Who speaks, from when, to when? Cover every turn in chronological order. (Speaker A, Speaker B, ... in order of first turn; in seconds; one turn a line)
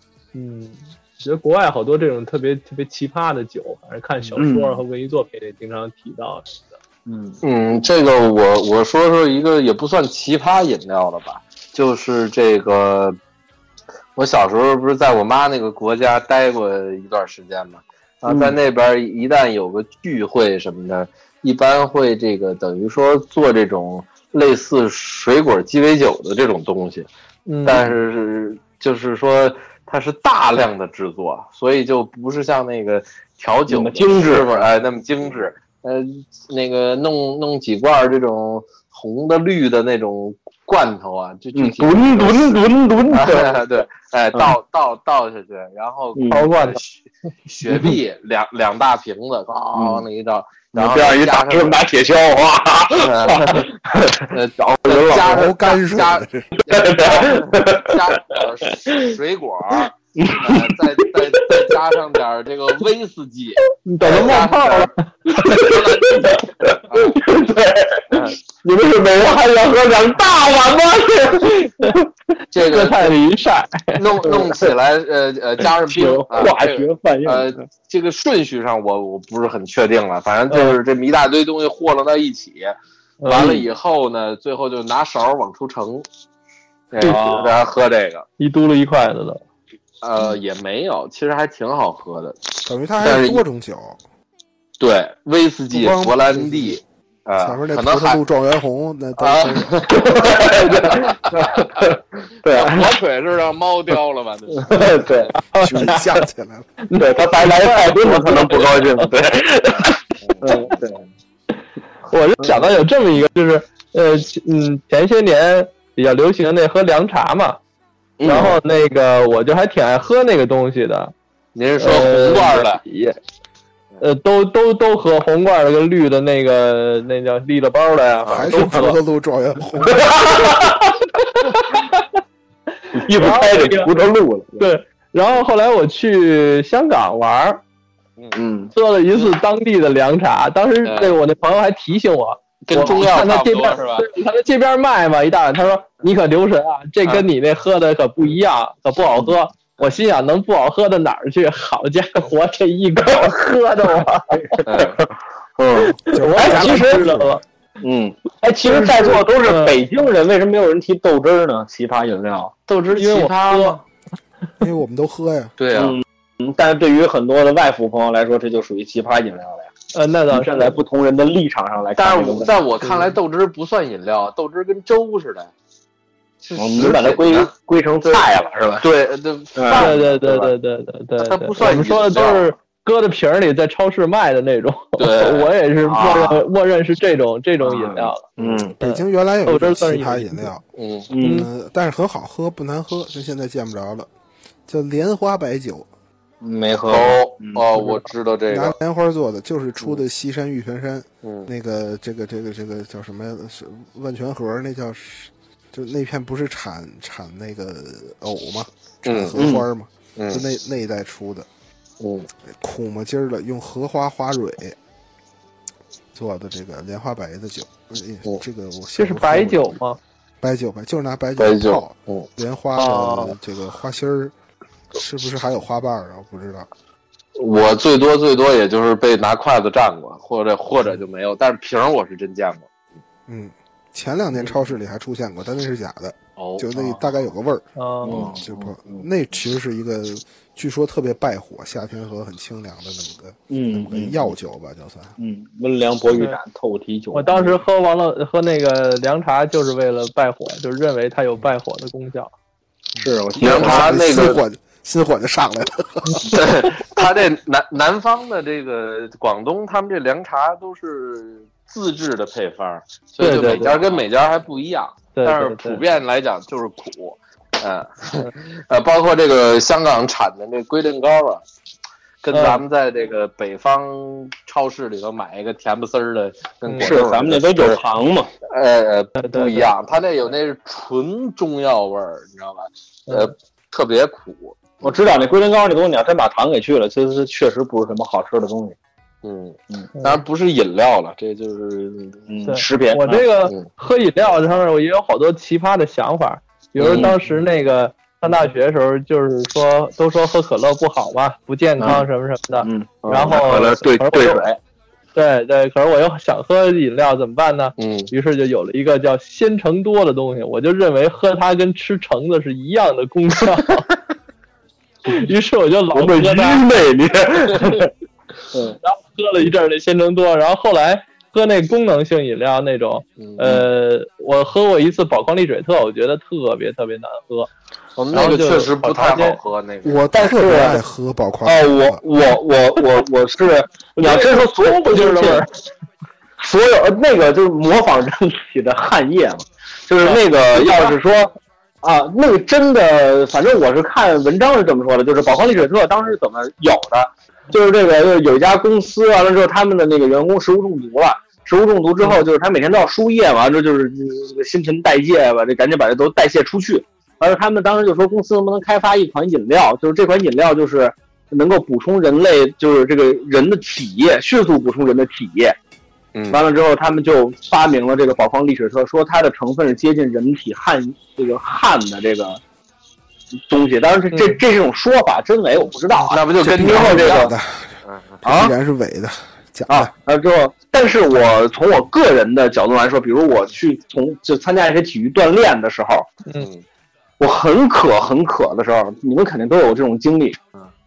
Speaker A: 0.3-6.6
Speaker B: 4.4-4.8
Speaker B: 7.1-7.4
Speaker C: 7.4-13.2
Speaker C: 14.2-27.1
Speaker B: 18.3-18.6
Speaker A: 27.5-27.8
Speaker C: 27.6-47.0
Speaker B: 33.7-34.7
Speaker B: 41.5-43.5
Speaker B: 46.1-46.5
Speaker A: 46.3-46.8
Speaker C: 47.5-51.8
Speaker B: 49.7-50.0
Speaker B: 50.7-55.5
Speaker C: 53.0-53.7
Speaker C: 54.3-67.3
Speaker D: 55.1-56.5
Speaker B: 56.7-59.0
Speaker B: 60.2-61.7
Speaker A: 63.9-65.5
Speaker B: 64.1-64.4
Speaker B: 65.3-72.0
Speaker C: 72.5-73.2
Speaker A: 72.6-74.2
Speaker C: 74.0-86.1
Speaker B: 74.2-74.7
Speaker B: 75.9-77.6
Speaker A: 80.5-80.8
Speaker A: 83.2-83.6
Speaker C: 86.9-88.2
Speaker B: 87.0-87.5
Speaker A: 87.0-87.4
Speaker A: 88.4-89.4
Speaker C: 90.0-92.4
Speaker D: 92.7-94.0
Speaker C: 93.0-93.4
Speaker C: 94.8-98.2
Speaker D: 95.7-96.8
Speaker D: 97.4-99.9
Speaker C: 99.2-101.9
Speaker B: 99.9-103.0
Speaker C: 102.5-105.3
Speaker B: 104.5-105.3
Speaker A: 105.5-106.2
Speaker D: 105.5-106.7
Speaker A: 106.9-109.1
Speaker B: 107.0-111.0
Speaker A: 112.1-117.6
Speaker B: 118.2-118.6
Speaker A: 118.3-121.1
Speaker C: 121.5-122.8
Speaker A: 121.8-123.2
Speaker A: 124.0-129.0
Speaker C: 128.2-128.5
Speaker D: 128.3-130.2
Speaker B: 129.9-130.9
Speaker B: 132.9-134.7
Speaker A: 132.9-133.9
Speaker A: 134.6-137.6
Speaker B: 138.3-138.7
Speaker A: 138.8-154.6
Speaker C: 140.8-141.2
Speaker C: 142.7-144.1
Speaker B: 154.6-154.9
Speaker C: 154.7-155.0
Speaker B: 155.6-156.9
Speaker D: 156.1-157.4
Speaker A: 156.1-157.4
Speaker B: 157.8-162.5
Speaker A: 158.7-159.8
Speaker C: 162.7-163.8
Speaker A: 162.9-163.8
Speaker D: 164.6-165.5
Speaker C: 165.6-166.0
Speaker B: 165.8-169.7
Speaker A: 169.9-170.8
Speaker B: 170.3-172.6
Speaker C: 172.0-175.5
Speaker A: 172.8-173.2
Speaker C: 176.4-177.5
Speaker B: 176.6-178.9
Speaker C: 178.8-180.5
Speaker B: 179.6-179.9
Speaker A: 179.7-188.3
Speaker C: 181.2-182.5
Speaker C: 185.0-185.5
Speaker B: 185.8-186.4
Speaker B: 187.6-188.7
Speaker D: 188.7-190.6
Speaker A: 188.8-190.5
Speaker C: 190.8-191.1
Speaker B: 191.1-191.4
Speaker A: 191.2-191.5
Speaker D: 191.2-194.1
Speaker D: 194.7-195.9
Speaker B: 196.4-197.6
Speaker C: 196.9-198.8
Speaker D: 198.5-211.5
Speaker C: 201.2-201.5
Speaker C: 209.1-209.4
Speaker B: 209.4-209.7
Speaker C: 210.2-210.4
Speaker C: 212.0-212.3
Speaker D: 212.6-214.8
Speaker D: 216.1-219.8
Speaker A: 219.0-220.0
Speaker D: 220.4-224.3
Speaker C: 221.4-222.3
Speaker A: 222.8-223.4
Speaker D: 224.9-226.7
Speaker C: 227.4-232.7
Speaker D: 233.3-245.1
Speaker C: 236.4-237.0
Speaker A: 237.8-238.2
Speaker B: 238.1-239.0
Speaker B: 243.5-244.3
Speaker B: 245.2-247.6
Speaker A: 247.1-252.3
Speaker B: 253.0-254.0
Speaker C: 253.4-254.4
Speaker D: 253.4-256.4
Speaker C: 256.3-271.4
Speaker A: 263.2-263.8
Speaker A: 265.1-265.8
Speaker C: 272.2-277.8
Speaker A: 272.3-272.6
Speaker A: 276.7-277.0
Speaker B: 276.8-278.3
Speaker C: 278.5-284.9
Speaker A: 279.2-279.7
Speaker A: 283.1-283.3
Speaker B: 284.8-288.8
Speaker C: 289.2-292.3
Speaker B: 292.3-293.2
Speaker A: 292.5-304.4
Speaker C: 296.8-297.2
Speaker B: 296.9-297.2
Speaker B: 302.6-304.6
Speaker C: 303.0-303.6
Speaker A: 305.1-313.9
Speaker C: 307.8-308.1
Speaker A: 315.1-316.7
Speaker B: 315.9-317.9
Speaker B: 318.5-318.8
Speaker A: 318.8-327.5
Speaker C: 323.2-323.7
Speaker C: 328.0-330.1
Speaker A: 328.1-329.4
Speaker D: 329.8-332.0
Speaker B: 330.1-330.8
Speaker B: 331.4-335.5
Speaker A: 334.0-335.5
Speaker B: 336.4-365.6
Speaker C: 366.1-366.4
Speaker B: 366.3-372.4
Speaker B: 373.5-377.3
Speaker A: 374.1-374.4
Speaker C: 376.1-377.3
Speaker D: 376.4-379.9
Speaker C: 377.9-378.2
Speaker B: 378.2-378.5
Speaker B: 379.7-386.1
Speaker C: 386.4-386.6
Speaker B: 387.2-390.4